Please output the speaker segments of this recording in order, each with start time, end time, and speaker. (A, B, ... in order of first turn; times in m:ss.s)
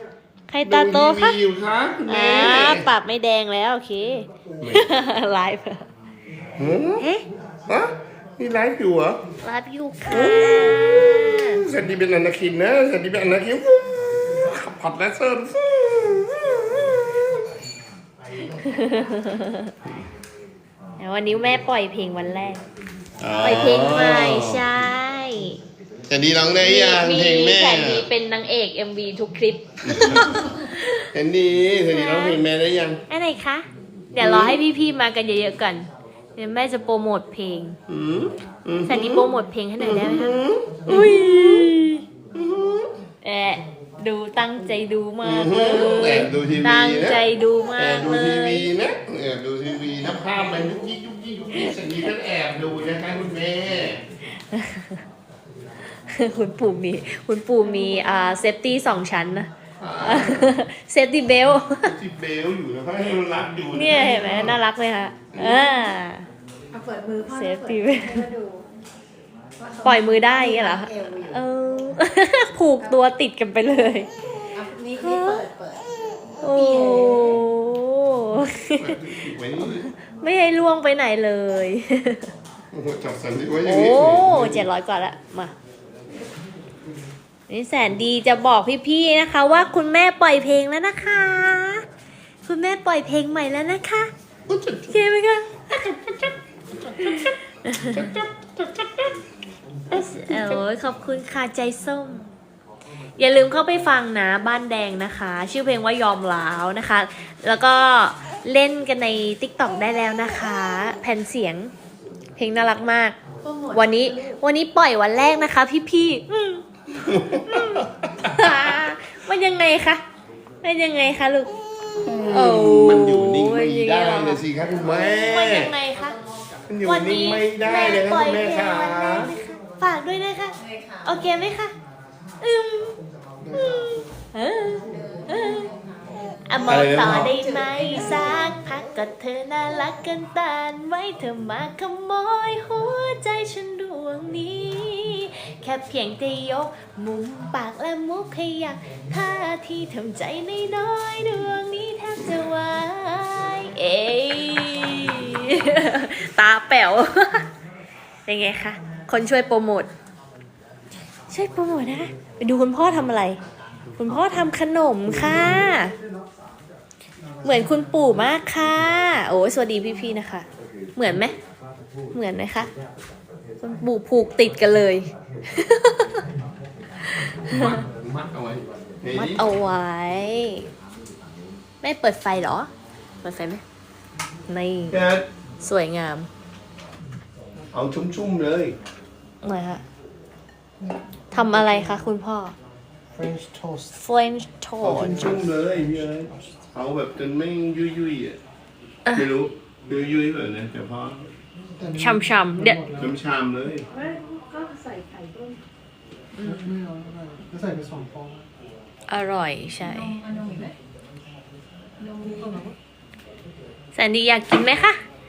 0:00.5-0:01.4 A
0:00.6-0:02.8 B
0:02.1-0:05.9 A
0:04.6-0:04.8 B
0:06.6-0:07.0 B
0:07.0-0:07.2 A
0:07.7-0:09.2 B
0:09.4-0:11.6 A
0:10.1-0:17.0 B
0:18.6-0:19.7 A
0:21.0-0:22.6 A
0:23.2-0:24.6 B
0:23.4-0:25.6 A
0:26.1-0:28.0 B
0:26.6-0:30.9 A
0:29.8-0:30.3 B
0:31.1-0:33.0 B
0:31.9-0:32.4 A
0:33.1-0:37.8 A
0:34.1-0:34.6 B
0:37.9-0:39.3 B
0:38.9-0:42.0 A
0:39.8-0:41.7 B
0:42.3-0:42.9 B
0:43.2-0:48.7 A
0:45.2-0:47.2 B
0:47.8-0:54.0 B
0:54.5-0:55.0 A
0:56.1-0:59.5 A
0:59.8-1:00.5 B
1:00.0-1:01.9 A
1:01.8-1:04.6 B
1:03.7-1:06.2 A
1:05.3-1:05.7 B
1:06.7-1:08.7 C
1:07.3-1:08.2 A
1:09.6-1:11.4 C
1:09.8-1:14.1 A
1:14.5-1:15.9 C
1:15.0-1:15.4 A
1:16.4-1:19.0 A
1:16.4-1:17.4 C
1:18.8-1:19.9 B
1:20.2-1:22.3 A
1:22.7-1:24.7 B
1:23.6-1:25.5 A
1:27.5-1:31.8 A
1:32.4-1:34.1 A
1:34.5-1:35.0 B
1:34.9-1:36.3 A
1:36.8-1:37.3 B
1:37.0-1:38.1 A
1:37.9-1:39.1 B
1:39.9-1:42.2 A
1:39.9-1:40.6 B
1:43.2-1:51.7 A
1:52.4-1:53.2 A
1:53.4-1:54.4 C
1:53.7-1:56.6 A
1:57.0-1:58.7 B
1:57.3-2:00.0 A
2:00.6-2:01.5 A
2:02.0-2:05.7 B
2:02.3-2:06.2 A
2:06.7-2:09.3 B
2:06.8-2:11.7 A
2:10.6-2:11.1 C
2:12.4-2:12.9 A
2:13.5-2:13.8 D
2:13.6-2:13.9 B
2:14.3-2:15.7 A
2:14.9-2:15.8 C
2:16.5-2:37.4 A
2:16.6-2:17.3 B
2:17.3-2:18.5 C
2:38.2-2:39.9 A
2:41.3-2:43.4 A
2:44.0-2:45.9 A
2:47.4-2:51.3 A
2:52.1-2:52.7 A
2:53.6-2:56.1 A
2:57.5-2:59.4 B
2:57.5-2:57.8 A
2:59.2-3:00.6 A
3:01.8-3:02.7 A
3:03.2-3:03.6 A
3:04.5-3:05.0 A
3:04.9-3:05.2 B
3:05.6-3:06.3 A
3:07.7-3:08.8 B
3:09.4-3:09.8 A
3:11.3-3:12.5 A
3:13.1-3:14.0 D
3:13.9-3:15.4 A
3:14.8-3:18.4 B
3:15.0-3:16.6 D
3:19.2-3:21.2 B
3:21.8-3:23.1 D
3:22.0-3:22.8 A
3:23.0-3:23.8 B
3:23.9-3:25.6 C
3:26.3-3:26.7 A
3:26.4-3:28.5 D
3:29.1-3:30.2 A
3:29.8-3:30.8 C
3:32.0-3:32.7 C
3:32.4-3:32.7 D
3:33.9-3:35.0 A